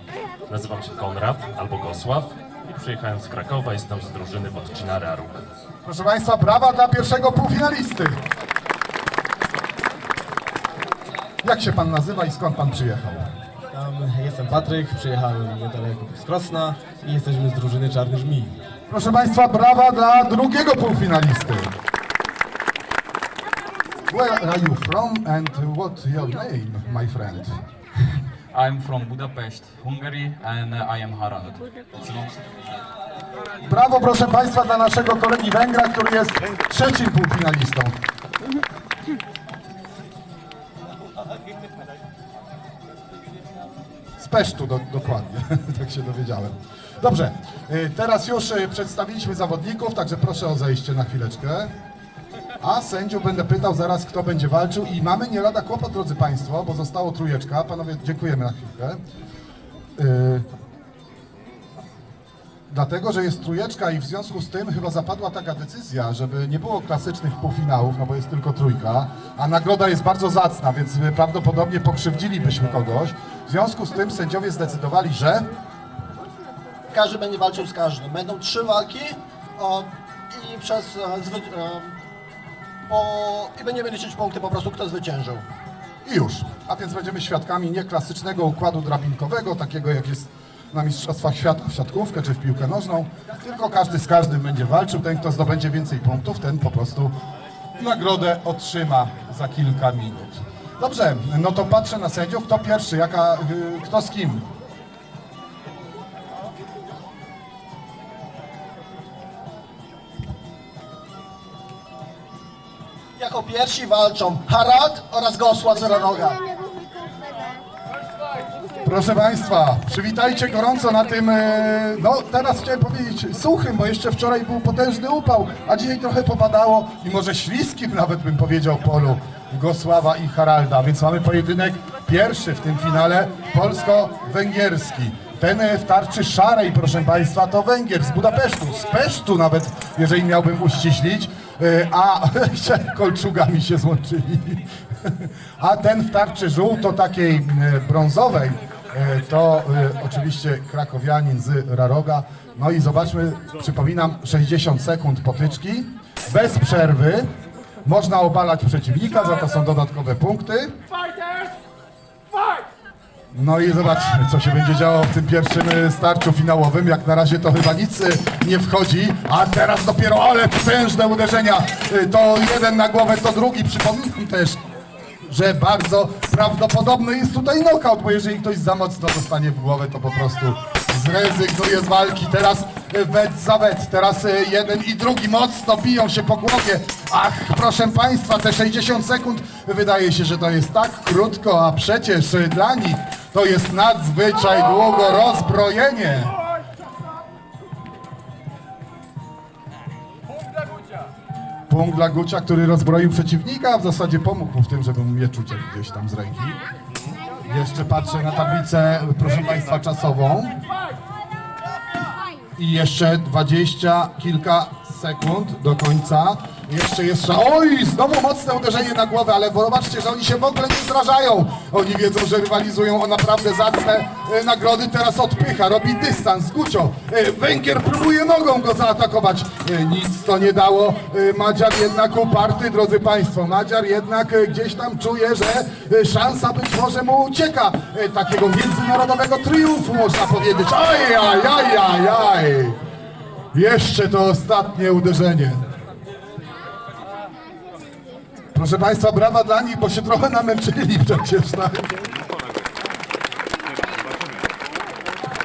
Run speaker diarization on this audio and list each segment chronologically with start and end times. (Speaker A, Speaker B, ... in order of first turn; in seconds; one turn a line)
Speaker A: 0.5-5.5
Speaker B: 5.8-8.2
Speaker B: 11.4-13.3
Speaker C: 13.7-18.6
Speaker B: 18.9-21.7
Speaker B: 24.1-27.6
Speaker D: 28.5-32.8
Speaker B: 33.7-37.9
Speaker B: 44.2-51.7
Speaker B: 52.6-59.0
Speaker B: 60.0-60.5
Speaker B: 62.7-75.5
Speaker E: 76.9-82.0
Speaker E: 82.9-85.5
Speaker B: 86.0-97.1
Speaker B: 97.8-104.5
Speaker E: 113.2-116.7
Speaker B: 118.8-157.3
Speaker B: 157.8-160.7
Speaker B: 163.3-174.6
Speaker B: 175.2-196.4
Speaker B: 201.7-206.6
Speaker B: 207.4-210.6
Speaker B: 212.6-242.8
Speaker B: 243.5-245.6
Speaker B: 248.5-252.0